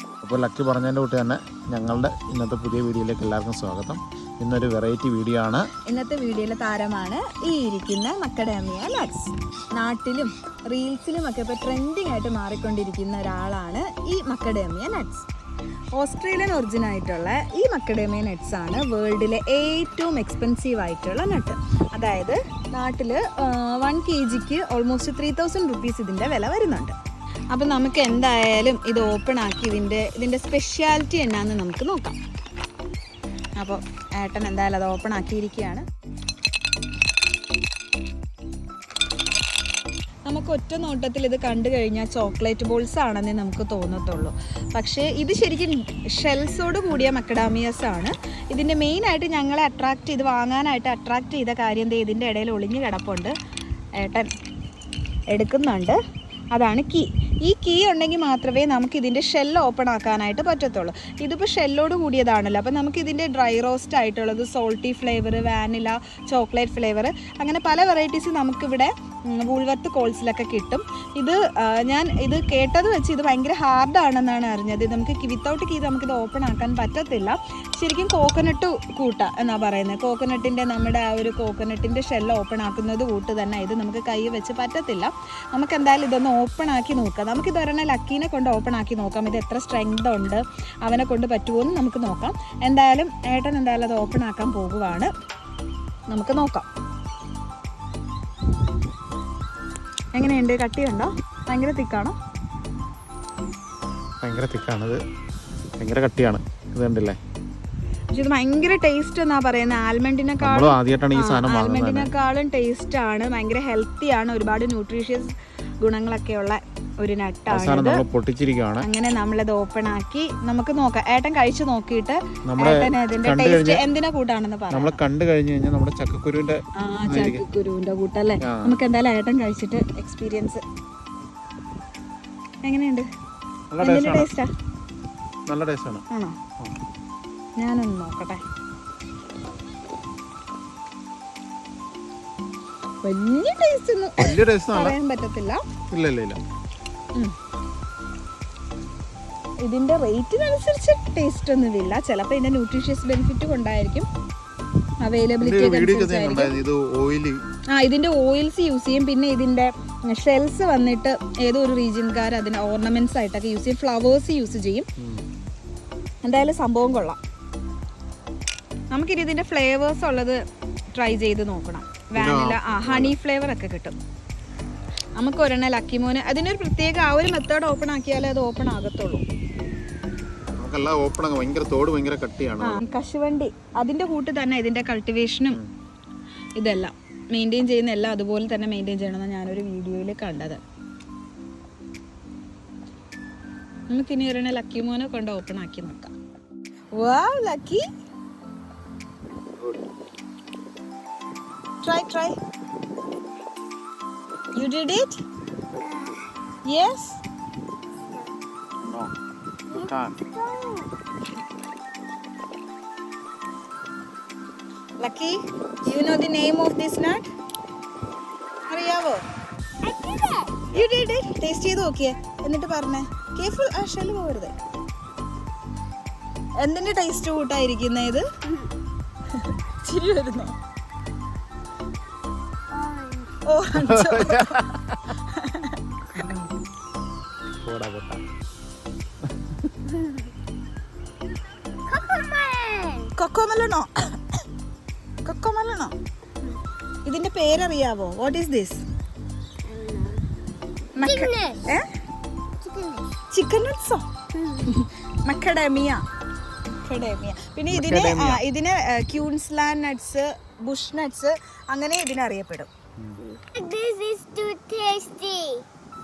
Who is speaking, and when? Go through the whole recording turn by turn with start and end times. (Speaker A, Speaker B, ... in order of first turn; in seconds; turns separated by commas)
Speaker A: 0.2-5.7, Speaker B: 5.8-15.3, Speaker B: 15.9-26.9, Speaker B: 27.5-32.2, Speaker B: 33.6-35.8, Speaker B: 40.3-53.3, Speaker B: 54.0-54.3, Speaker B: 55.3-56.0, Speaker B: 56.5-95.1, Speaker B: 96.1-96.7, Speaker B: 100.1-102.2, Speaker A: 104.2-105.0, Speaker A: 105.8-107.2, Speaker B: 108.1-118.0, Speaker A: 110.4-112.1, Speaker A: 117.5-118.9, Speaker B: 118.8-125.0, Speaker A: 122.5-123.8, Speaker A: 124.7-127.5, Speaker B: 126.8-130.6, Speaker A: 128.4-128.8, Speaker B: 132.6-133.1, Speaker A: 133.7-134.3, Speaker B: 133.8-134.5, Speaker A: 135.5-136.0, Speaker B: 136.1-136.3, Speaker B: 137.6-138.4, Speaker B: 143.0-145.6, Speaker A: 144.2-144.9, Speaker A: 145.9-146.4, Speaker B: 149.6-154.1, Speaker B: 155.0-156.5, Speaker A: 155.4-157.4, Speaker B: 157.7-164.9, Speaker A: 165.0-165.2, Speaker B: 166.2-167.2, Speaker B: 168.9-170.4, Speaker B: 170.9-173.9, Speaker A: 172.2-173.1, Speaker B: 175.2-179.2, Speaker A: 180.6-182.8, Speaker B: 182.6-185.6, Speaker B: 186.6-190.6, Speaker B: 193.9-196.1, Speaker B: 196.9-197.8, Speaker B: 201.8-202.3, Speaker B: 204.5-205.2, Speaker C: 205.8-206.2, Speaker B: 206.7-207.2, Speaker A: 208.8-209.1, Speaker C: 209.7-210.9, Speaker A: 209.7-210.2, Speaker B: 215.0-217.3, Speaker B: 218.7-219.2, Speaker C: 219.8-220.6, Speaker B: 220.7-224.5, Speaker B: 226.6-228.2, Speaker B: 229.3-230.5, Speaker C: 232.7-233.3, Speaker B: 233.4-234.6, Speaker A: 233.8-235.1, Speaker B: 235.3-235.8, Speaker A: 236.1-236.4, Speaker A: 237.6-238.2, Speaker A: 239.2-239.7, Speaker C: 239.9-240.2, Speaker C: 241.9-243.1, Speaker B: 243.2-243.9, Speaker B: 245.2-245.9, Speaker B: 247.0-248.8, Speaker C: 249.7-250.2, Speaker B: 250.9-251.9, Speaker C: 251.0-251.6, Speaker C: 252.6-253.1, Speaker B: 253.3-254.1, Speaker C: 254.3-254.8, Speaker B: 254.7-256.0, Speaker B: 256.8-262.7, Speaker A: 257.7-258.4, Speaker C: 263.2-265.6